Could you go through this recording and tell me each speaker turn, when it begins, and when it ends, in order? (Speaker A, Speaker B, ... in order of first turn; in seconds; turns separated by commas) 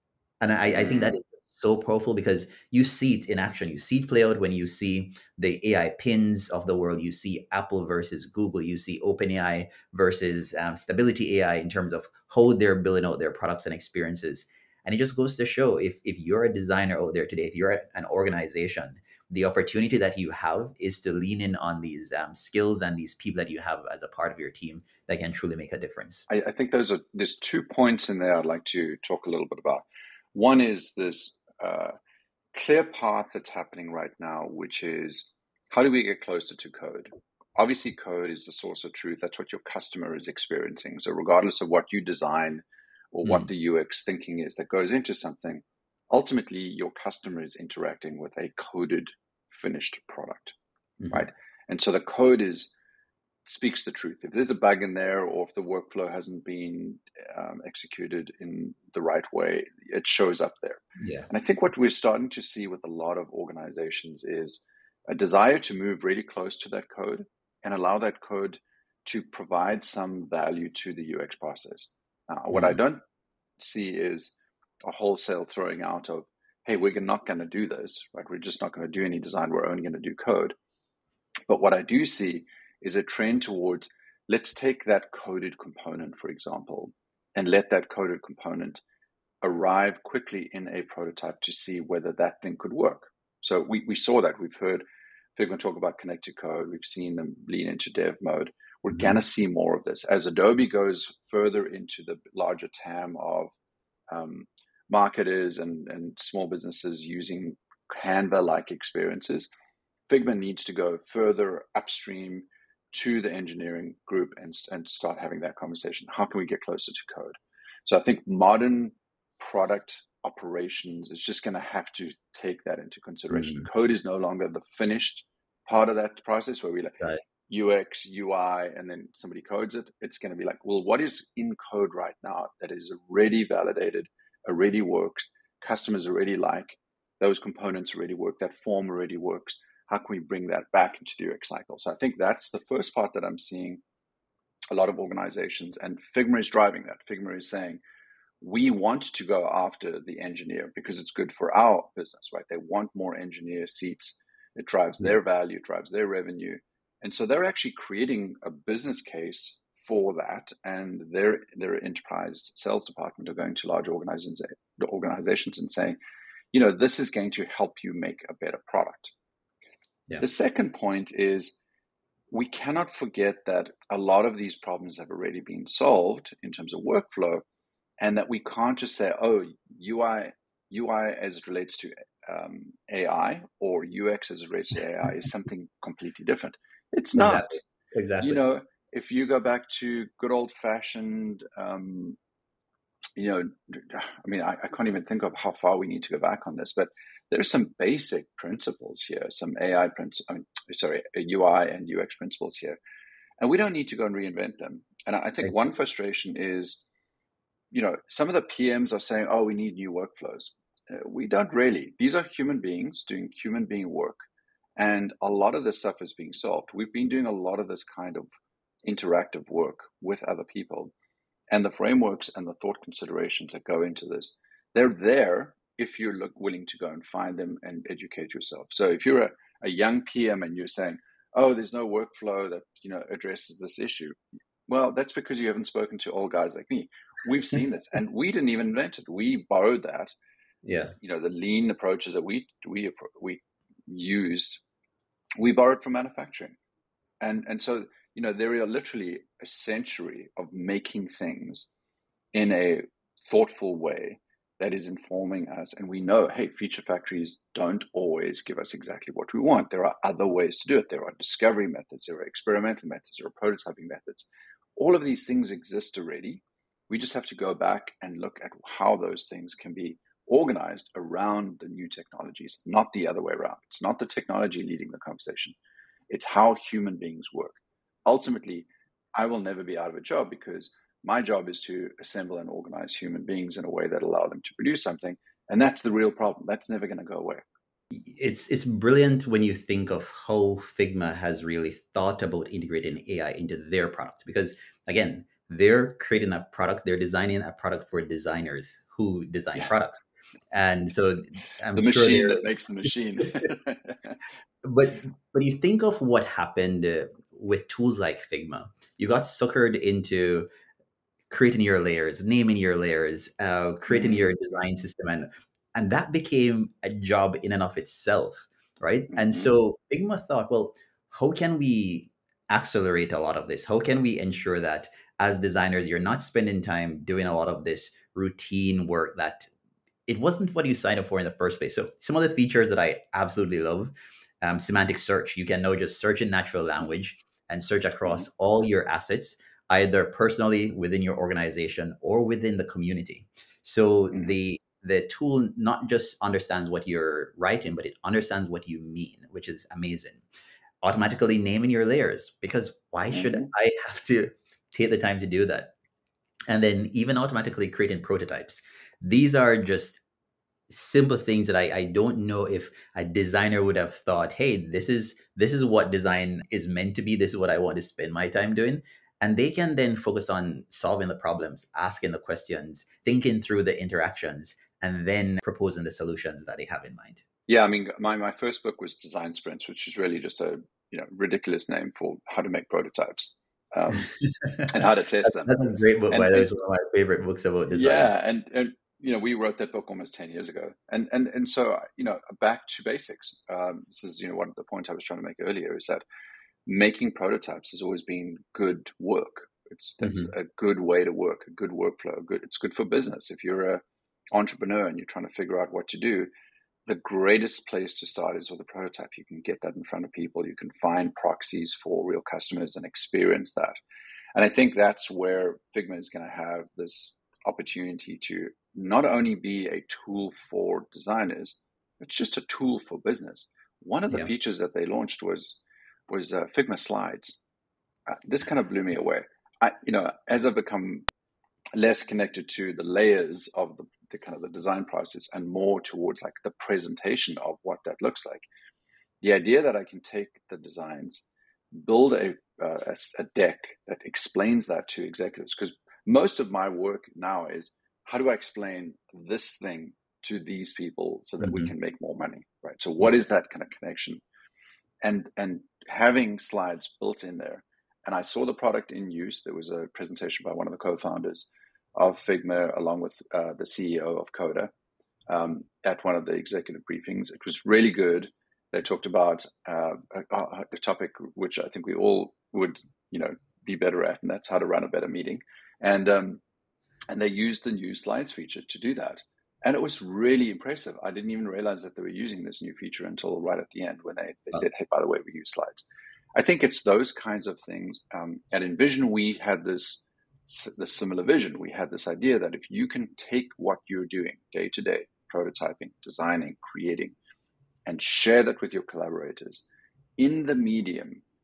Speaker A: 0.4-26.3, Speaker B: 0.7-1.1, Speaker B: 26.3-31.9, Speaker B: 32.5-50.5, Speaker A: 51.0-51.3, Speaker B: 51.1-52.7, Speaker B: 53.4-73.0, Speaker A: 61.0-61.3, Speaker A: 72.5-72.8, Speaker B: 73.6-80.5, Speaker B: 81.5-88.8, Speaker B: 89.4-94.8, Speaker B: 95.3-103.5, Speaker B: 104.1-109.5, Speaker B: 110.1-143.8, Speaker A: 123.4-123.6, Speaker B: 144.7-147.8, Speaker B: 148.4-166.0, Speaker B: 166.5-169.1, Speaker B: 170.2-171.6, Speaker B: 172.3-177.4, Speaker B: 178.0-187.6, Speaker A: 187.2-188.4, Speaker B: 188.2-192.2, Speaker B: 193.2-202.8, Speaker B: 203.4-206.8, Speaker B: 207.7-214.2, Speaker B: 214.8-218.3, Speaker B: 218.8-220.9, Speaker B: 221.5-234.2, Speaker B: 234.7-240.1, Speaker A: 240.6-240.9, Speaker B: 241.0-244.6, Speaker B: 245.4-246.6, Speaker B: 247.2-251.7, Speaker B: 252.3-275.6, Speaker B: 276.1-287.4, Speaker A: 287.9-302.4, Speaker B: 301.8-304.2, Speaker A: 304.6-310.4, Speaker A: 311.3-329.5, Speaker B: 313.9-314.2, Speaker B: 319.1-319.5, Speaker A: 330.1-350.2, Speaker A: 350.8-355.7, Speaker B: 353.1-353.5, Speaker A: 356.5-360.0, Speaker A: 360.7-377.2, Speaker B: 377.5-384.1, Speaker A: 384.2-388.1, Speaker B: 384.7-385.6, Speaker B: 386.1-386.5, Speaker B: 387.7-396.0, Speaker B: 396.6-406.3, Speaker A: 400.0-400.3, Speaker B: 406.9-413.8, Speaker B: 414.3-427.4, Speaker B: 428.1-431.1, Speaker B: 431.7-438.5, Speaker B: 439.2-454.2, Speaker A: 451.4-451.7, Speaker B: 455.0-464.7, Speaker B: 465.3-476.4, Speaker B: 477.1-485.8, Speaker B: 486.4-497.1, Speaker B: 497.9-499.7, Speaker B: 500.2-501.2